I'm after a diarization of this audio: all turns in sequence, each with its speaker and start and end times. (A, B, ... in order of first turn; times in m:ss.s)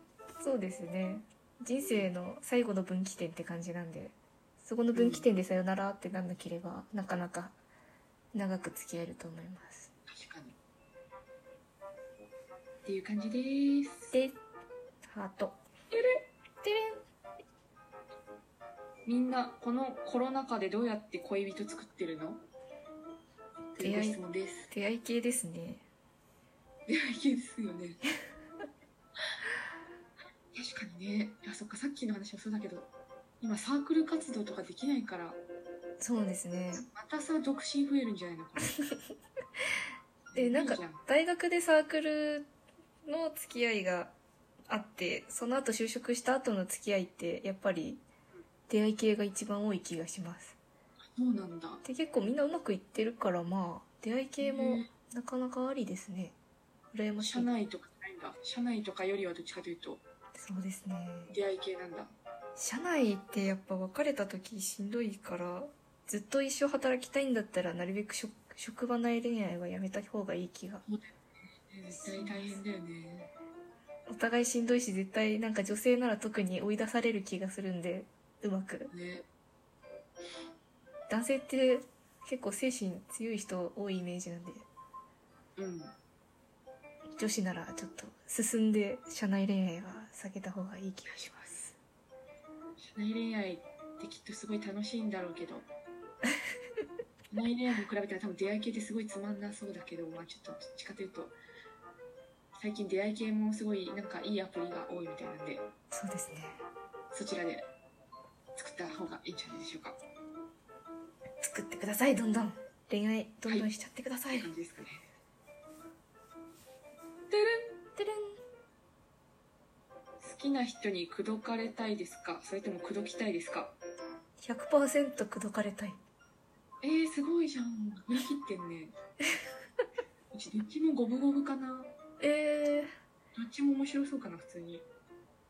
0:00.4-0:07.6 A
0:04.9-0:05.3 B
0:08.3-0:09.9 A
0:10.1-0:10.6 B
0:12.8-0:14.1 B
0:14.1-0:14.4 A
0:15.1-0:15.6 A
0:15.9-0:16.3 B
0:16.6-0:17.0 A
0:19.1-0:22.4 B
0:23.8-0:24.7 B
0:23.8-0:24.2 A
0:24.7-0:25.8 A
0:26.9-0:28.0 B
0:30.5-0:32.9 B
0:33.4-0:35.4 B
0:36.0-0:36.9 A
0:36.9-0:38.7 B
0:40.3-0:41.0 B
0:40.3-0:42.5 A
0:43.1-0:44.1 A
0:44.7-0:48.0 A
0:48.7-0:50.6 A
0:51.2-0:51.8 B
0:51.8-0:56.4 A
0:54.4-0:54.9 B
0:56.9-0:57.5 A
0:57.2-1:00.0 B
1:00.4-1:01.3 A
1:01.3-1:02.1 B
1:02.6-1:10.8 A
1:10.9-1:13.3 B
1:11.9-1:12.6 A
1:14.1-1:18.9 A
1:18.9-1:19.2 B
1:21.1-1:24.7 A
1:25.6-1:26.0 B
1:27.2-1:31.8 A
1:32.8-1:35.7 B
1:37.3-1:41.4 B
1:42.6-1:45.7 B
1:45.9-1:46.6 A
1:47.1-1:47.7 B
1:48.6-1:50.0 B
1:51.4-1:54.5 A
1:54.3-1:55.1 B
1:57.3-1:57.7 B
1:58.0-1:58.4 A
2:00.2-2:03.8 B
2:04.4-2:06.0 A
2:06.8-2:09.0 B
2:10.3-2:11.9 B
2:12.2-2:12.9 A
2:13.4-2:14.9 B